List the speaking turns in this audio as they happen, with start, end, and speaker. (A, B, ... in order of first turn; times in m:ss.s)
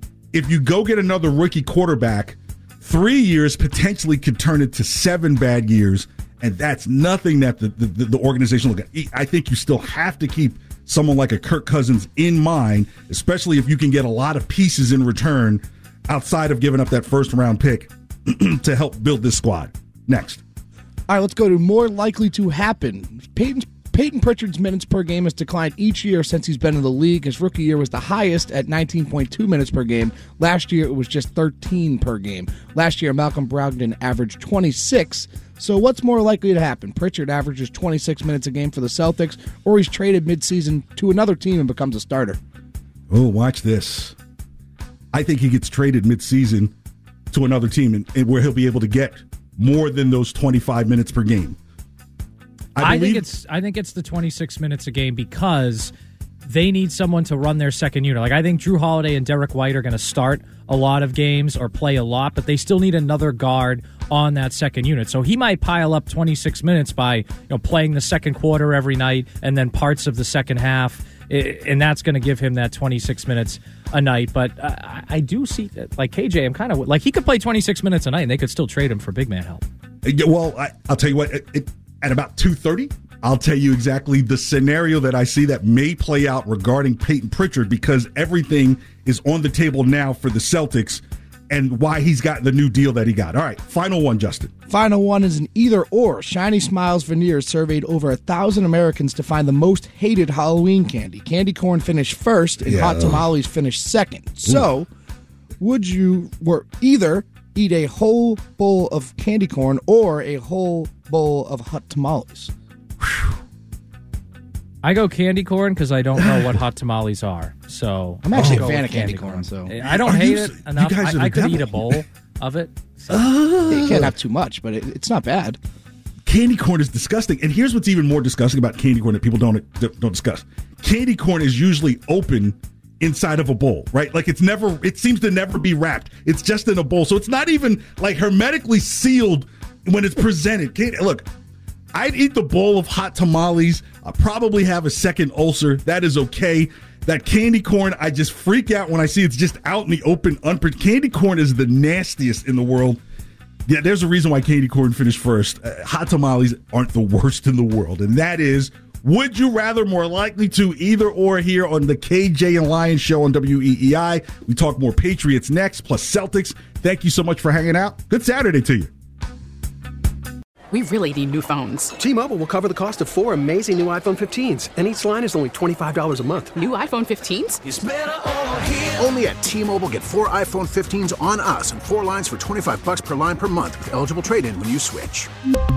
0:00.3-0:20.4 A
0:21.1-0:42.4 B
0:43.1-0:44.2 A
0:45.1-0:46.7 A
0:47.3-0:51.6 A
0:52.8-0:53.2 A
0:52.8-0:55.9 C
0:56.4-1:19.6 C
1:20.0-1:34.5 A
1:34.7-1:44.9 B
1:42.6-1:43.2 A
1:45.6-1:52.5 B
1:53.0-1:53.3 A
1:54.8-2:03.3 C
1:58.2-1:59.7 B
1:58.3-1:58.7 A
1:59.8-2:02.0 A
2:03.1-2:04.1 A
2:03.7-2:05.6 B
2:06.2-2:21.3 A
2:21.9-2:33.0 A
2:33.6-2:48.9 A
2:50.7-2:51.9 D
2:52.0-2:56.6 E
2:56.5-2:57.6 D
2:57.7-3:05.3 F